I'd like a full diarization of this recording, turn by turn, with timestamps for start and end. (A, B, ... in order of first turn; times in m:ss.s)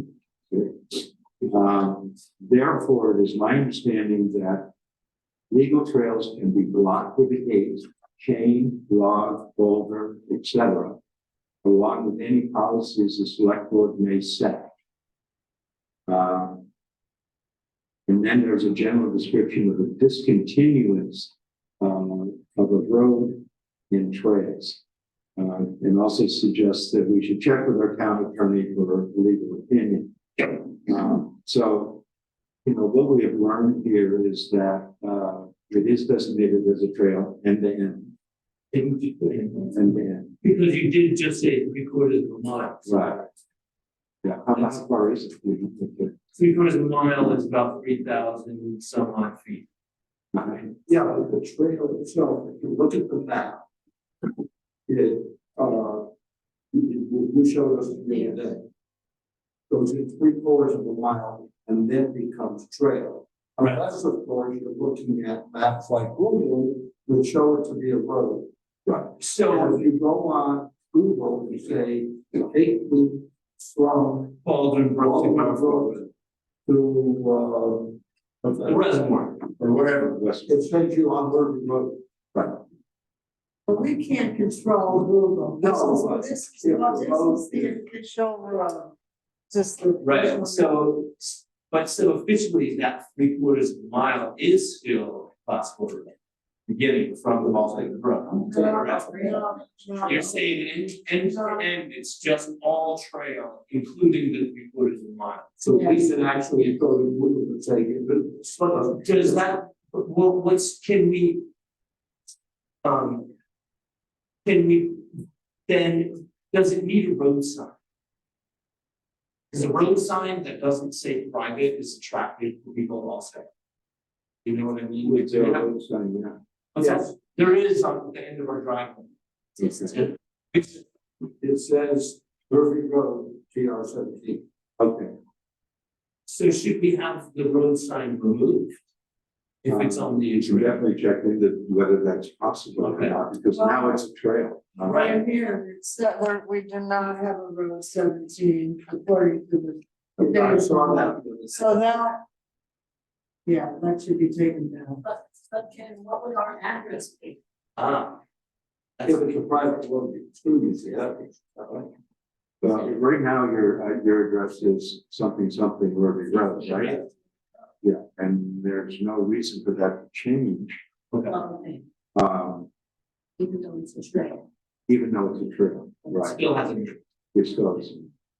0:00.5-0:04.7 A
0:05.5-0:11.0 A
0:11.6-0:14.7 A
0:16.1-0:16.6 A
0:18.1-0:24.8 A
0:25.4-0:32.0 A
0:32.6-0:38.1 A
0:38.7-0:39.7 B
0:39.6-0:40.3 A
0:40.4-0:43.3 B
0:42.8-0:43.2 A
0:44.2-0:46.1 A
0:46.3-0:49.6 B
0:50.4-0:50.7 B
0:50.8-0:53.6 C
0:54.9-0:56.1 C
0:56.7-0:58.6 C
0:59.7-1:08.5 C
1:09.2-1:09.8 B
1:09.4-1:14.4 C
1:14.4-1:16.1 B
1:15.0-1:16.0 C
1:16.7-1:18.9 C
1:18.6-1:19.5 B
1:19.6-1:20.6 A
1:20.4-1:22.0 C
1:23.7-1:28.9 D
1:25.6-1:27.8 C
1:29.5-1:30.7 D
1:30.0-1:36.1 B
1:36.7-1:39.3 B
1:38.3-1:40.4 D
1:38.5-1:39.3 C
1:40.0-1:45.6 B
1:41.2-1:41.6 D
1:45.6-1:49.3 C
1:48.6-1:51.4 B
1:52.8-1:53.3 B
1:54.4-1:55.1 B
1:55.7-1:57.7 B
1:59.5-2:03.5 B
2:04.4-2:05.7 B
2:05.0-2:06.4 A
2:06.7-2:10.8 B
2:11.4-2:14.4 C
2:14.8-2:15.1 A
2:16.3-2:18.7 B
2:19.6-2:20.8 B
2:19.7-2:25.2 A
2:22.8-2:23.2 B
2:23.5-2:23.9 D
2:24.8-2:25.2 B
2:24.8-2:32.2 D
2:30.2-2:31.9 C
2:33.4-2:35.0 D
2:35.1-2:37.4 E
2:37.8-2:38.2 B
2:39.0-2:39.4 B
2:39.0-2:41.9 C
2:42.6-2:47.0 A
2:46.7-2:47.0 B
2:47.8-2:50.8 A
2:51.1-2:51.4 B
2:51.4-2:51.8 E
2:52.1-2:52.7 A
2:53.4-2:54.4 E
2:54.9-2:56.4 A
2:56.1-2:57.0 B
2:57.3-2:58.1 A